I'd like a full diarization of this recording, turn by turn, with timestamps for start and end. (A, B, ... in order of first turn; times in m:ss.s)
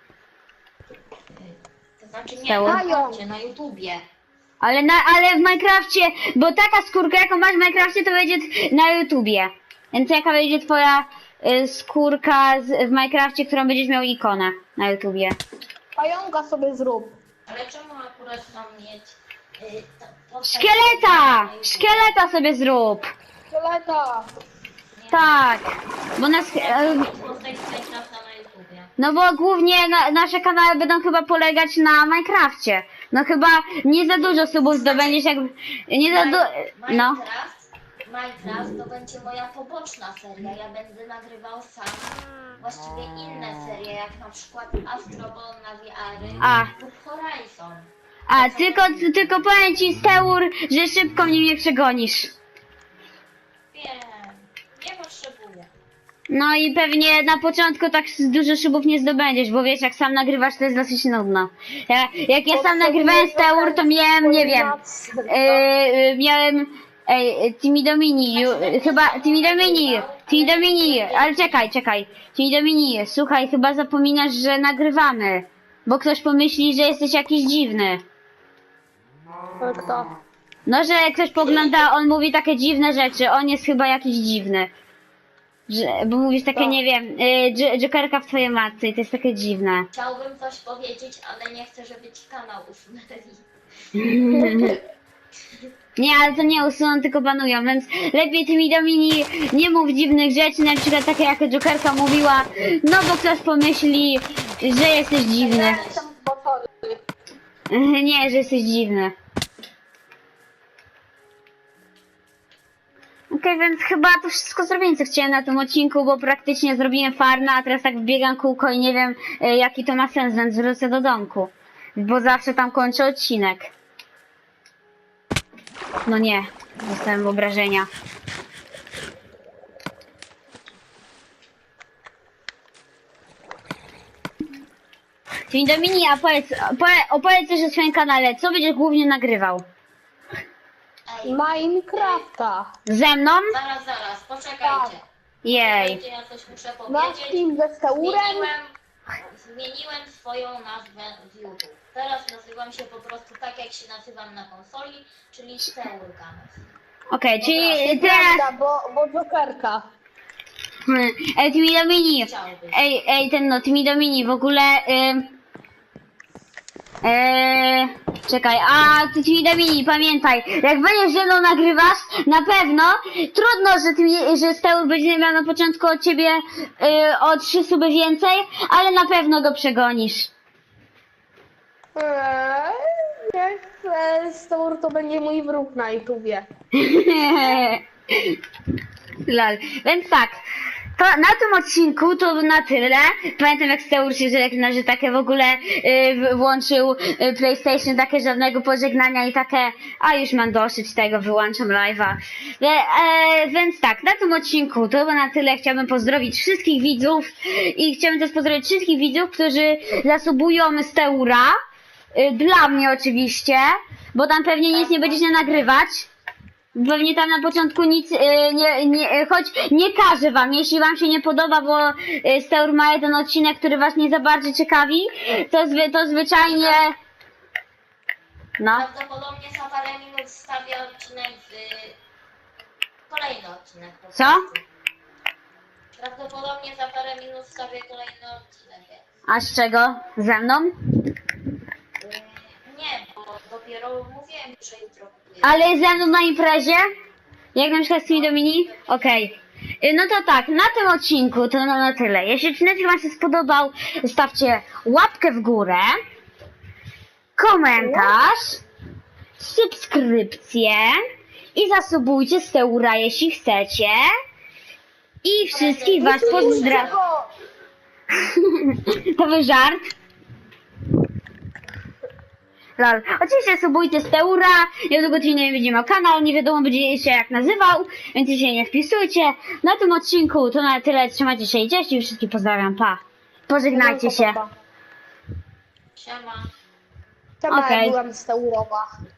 0:01.3-0:04.0 A
0:02.4-0:02.8 B
0:02.6-0:03.2 C
0:04.6-0:15.4 B
0:16.0-0:17.2 C
0:17.5-0:22.2 A
0:20.4-0:23.1 B
0:23.5-0:24.3 C
0:25.0-0:25.4 A
0:25.1-0:27.1 B
0:26.2-0:28.9 A
0:29.0-0:37.2 B
0:34.2-0:35.2 A
0:36.1-0:49.1 A
0:46.4-0:46.7 B
0:48.3-0:52.3 B
0:53.7-0:55.7 A
0:56.3-1:04.8 B
1:02.5-1:05.6 C
1:05.3-1:18.0 B
1:08.3-1:11.7 A
1:19.6-1:20.1 C
1:20.7-1:24.7 B
1:25.7-1:29.9 B
1:26.5-1:26.8 C
1:29.9-1:33.5 A
1:33.9-1:34.8 B
1:34.3-1:34.8 C
1:36.0-1:45.8 B
1:45.4-1:47.0 C
1:45.5-1:46.0 A
1:47.7-1:49.1 B
1:53.3-2:03.7 B
2:06.1-2:07.9 B
2:15.5-2:19.7 B
2:21.1-2:22.2 A
2:21.2-2:22.7 C
2:22.9-2:23.6 B
2:23.5-2:27.5 A
2:24.6-2:24.9 C
2:25.4-2:26.0 B
2:26.9-2:28.5 C
2:28.0-2:28.7 A
2:29.3-2:36.6 A
2:37.1-2:38.4 B
2:37.4-2:38.1 A
2:37.6-2:39.8 C
2:40.9-2:45.3 B
2:42.2-2:42.8 A
2:47.0-3:00.3 B
3:01.9-3:06.5 C
3:06.7-3:08.4 B
3:09.2-3:10.4 B
3:11.0-3:31.6 B
3:32.1-3:36.1 B
3:34.7-3:35.7 A
3:36.8-3:46.9 B
3:46.4-3:46.9 A
3:48.6-3:48.8 B
3:48.7-3:52.0 A
3:53.1-3:54.6 A
3:54.1-3:54.4 B
3:55.9-3:59.1 A
3:59.3-4:00.8 B
4:02.0-4:06.2 A
4:05.4-4:06.9 B
4:07.6-4:16.0 B
4:07.9-4:09.3 A
4:17.4-4:18.6 B
4:17.8-4:18.2 C
4:19.4-4:21.0 B
4:21.6-4:24.1 B
4:25.2-4:26.9 B
4:25.5-4:27.0 A
4:26.0-4:27.3 C
4:28.1-4:29.9 B
4:32.8-4:44.4 B
4:43.7-4:44.5 C
4:46.0-4:46.5 A
4:47.4-4:48.9 C
4:47.5-4:48.0 B